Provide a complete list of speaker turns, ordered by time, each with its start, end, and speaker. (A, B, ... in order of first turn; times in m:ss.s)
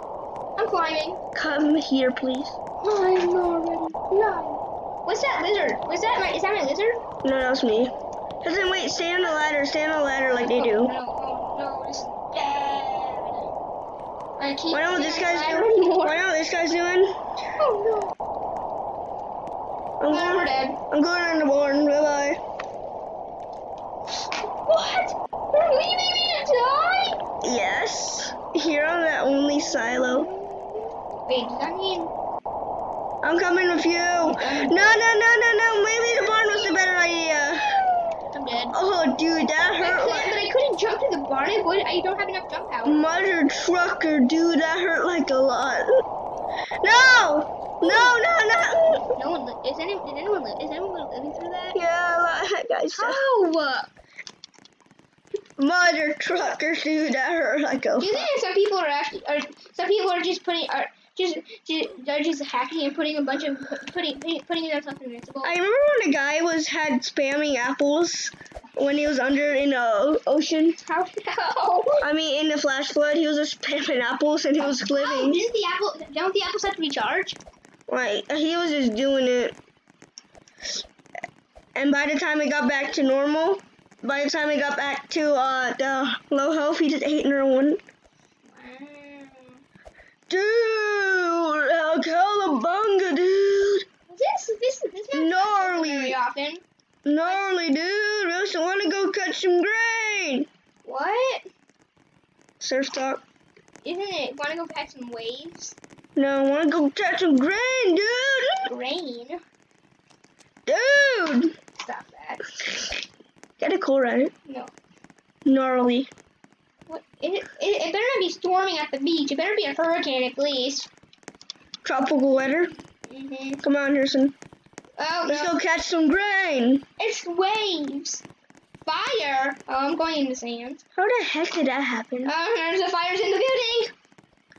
0:00.6-0:01.2 A
0:01.3-0:02.6 B
0:02.8-0:07.0 A
0:07.2-0:10.9 B
0:10.5-0:13.5 A
0:14.4-0:16.2 A
0:14.7-0:17.2 B
0:17.6-0:18.1 A
0:20.0-0:22.4 B
0:20.1-0:20.8 A
0:24.7-0:27.2 A
0:27.4-0:30.3 B
0:29.7-0:32.1 A
0:33.2-0:37.9 B
0:34.2-0:34.8 A
0:38.3-0:38.8 A
0:38.7-0:40.4 B
0:39.8-0:43.1 A
0:42.8-0:46.0 B
0:46.8-0:49.1 B
0:47.8-0:48.2 A
0:49.0-0:51.8 A
0:51.7-0:53.2 B
0:53.0-0:53.9 A
0:55.6-0:58.3 B
0:58.0-1:05.6 A
1:05.4-1:10.8 B
1:10.8-1:12.0 A
1:12.0-1:15.4 B
1:14.6-1:17.4 A
1:17.9-1:19.6 B
1:21.8-1:27.8 B
1:28.4-1:29.6 A
1:30.3-1:33.8 B
1:34.1-1:36.6 A
1:35.1-1:36.2 B
1:37.0-1:40.5 B
1:37.2-1:37.6 A
1:40.8-1:41.4 A
1:42.6-1:43.2 B
1:43.8-1:45.8 A
1:46.2-1:48.7 B
1:48.7-1:49.4 A
1:50.7-1:51.5 B
1:51.8-1:52.4 A
1:53.6-1:54.3 B
1:54.5-1:54.7 A
1:55.4-1:56.1 B
1:56.9-2:00.9 A
2:01.8-2:02.8 B
2:03.1-2:03.6 A
2:03.6-2:04.4 B
2:05.0-2:05.5 A
2:05.3-2:06.8 B
2:07.0-2:08.2 A
2:08.8-2:10.8 A
2:11.0-2:12.3 B
2:12.2-2:13.9 A